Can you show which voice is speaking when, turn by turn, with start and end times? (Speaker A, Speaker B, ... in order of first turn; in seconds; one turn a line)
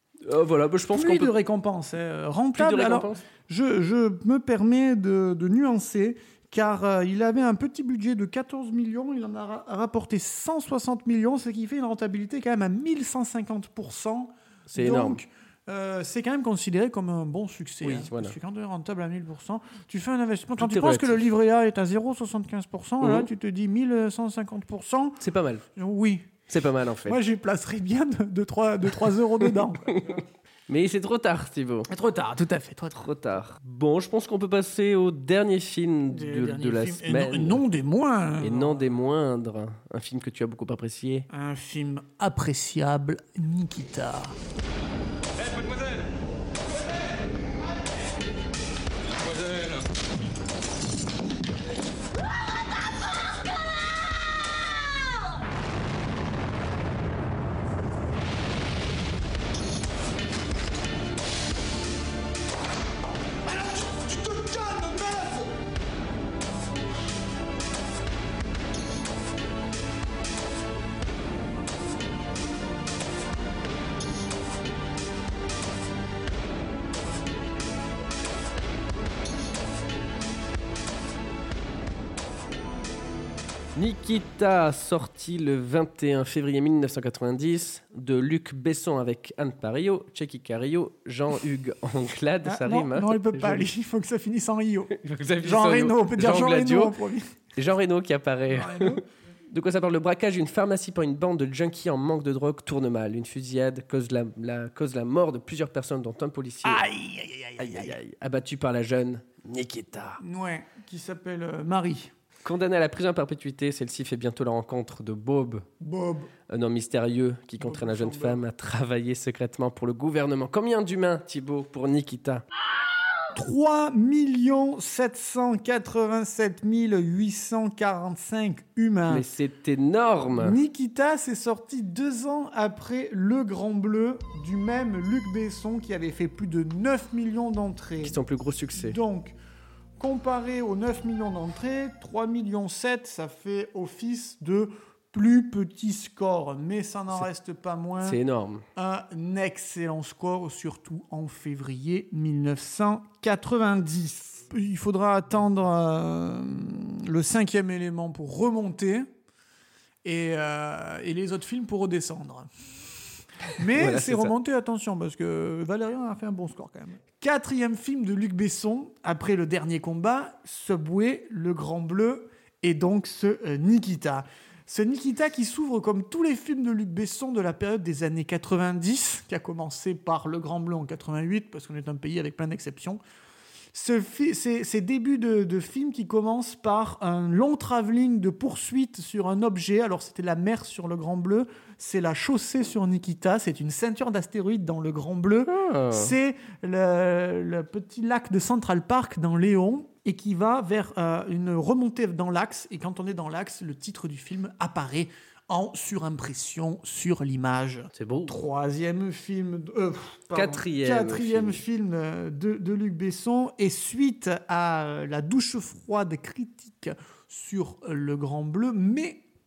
Speaker A: 0.2-1.3
Speaker B: 0.9-25.2
Speaker A: 2.5-3.2
Speaker A: 14.7-15.2
Speaker A: 17.8-18.4
Speaker A: 20.6-21.3
Speaker A: 23.0-23.3
Speaker A: 25.2-25.6
Speaker B: 25.8-26.3
Speaker A: 26.5-27.2
Speaker B: 27.0-30.2
Speaker A: 29.9-31.9
Speaker B: 31.9-33.1
Speaker A: 32.9-37.6
Speaker B: 36.1-38.9
Speaker A: 38.4-41.3
Speaker B: 41.3-44.4
Speaker B: 63.6-65.4
Speaker A: 83.7-93.7
Speaker B: 92.4-97.3
Speaker A: 95.0-96.9
Speaker A: 97.5-106.8
Speaker B: 98.5-99.0
Speaker B: 106.6-108.0
Speaker A: 107.6-110.2
Speaker B: 110.2-112.1
Speaker A: 112.4-115.7
Speaker B: 115.8-116.3
Speaker A: 116.5-122.4
Speaker B: 117.6-118.4
Speaker B: 123.3-129.2
Speaker A: 129.1-130.6
Speaker B: 130.3-138.2
Speaker A: 138.0-139.0
Speaker B: 138.7-139.3
Speaker B: 140.0-148.2
Speaker A: 148.0-148.6
Speaker B: 148.8-159.1
Speaker B: 160.0-162.5
Speaker B: 163.6-183.0
Speaker A: 163.7-164.3
Speaker B: 183.7-219.2
Speaker A: 195.5-196.1
Speaker A: 207.9-208.3
Speaker A: 210.3-211.6